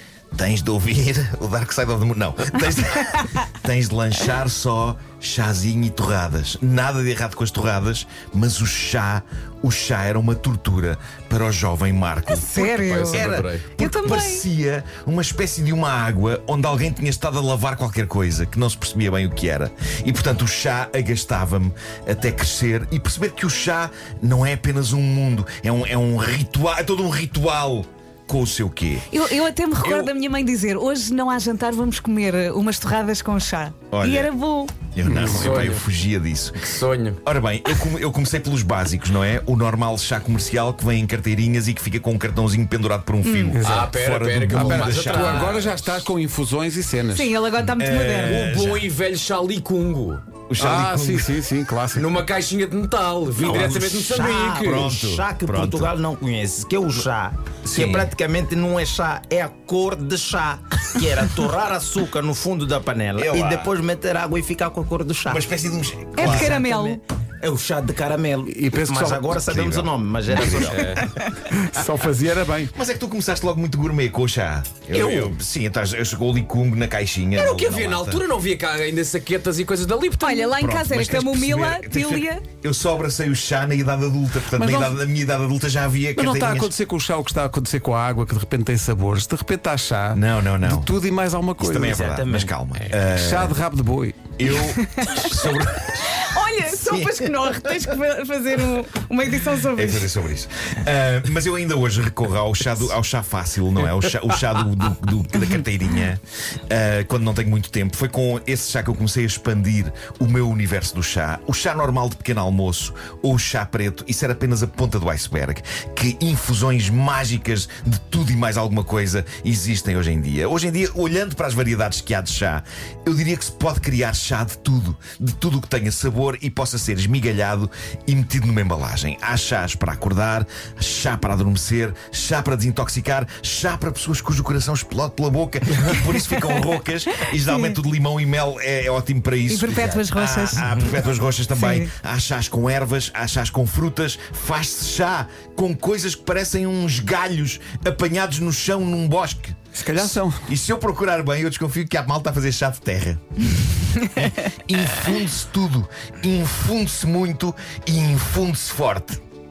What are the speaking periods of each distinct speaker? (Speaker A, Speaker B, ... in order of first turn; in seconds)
Speaker A: 0.3-29.1, 29.8-30.1, 33.9-34.3, 34.9-36.6, 37.2-43.9, 44.5-45.6, 47.6-48.9, 50.5-51.3, 53.4-55.9, 57.7-58.1, 63.1-63.7, 65.3-66.6, 69.5-70.9, 72.7-78.2, 80.5-86.7, 90.1-90.9, 91.6-93.6, 94.4-96.2, 96.8-97.3, 99.7-159.2
Speaker B: 12.3-14.4, 29.1-34.9, 43.2-43.6, 47.1-48.5, 66.2-67.0, 80.2-82.4, 96.2-100.1, 139.5-140.7, 141.5-141.9
Speaker C: 12.5-13.7, 35.3-35.8, 36.5-37.2, 43.6-45.8, 48.3-50.2, 51.9-54.9, 70.7-71.1, 74.9-75.2, 77.3-80.5
Speaker D: 35.0-35.6, 43.5-47.3, 50.6-52.1, 68.5-69.8, 71.3-72.7, 84.5-85.0, 86.1-92.0, 93.1-94.3, 149.7-150.5
Speaker E: 53.4-65.4, 66.2-71.0, 91.7-92.5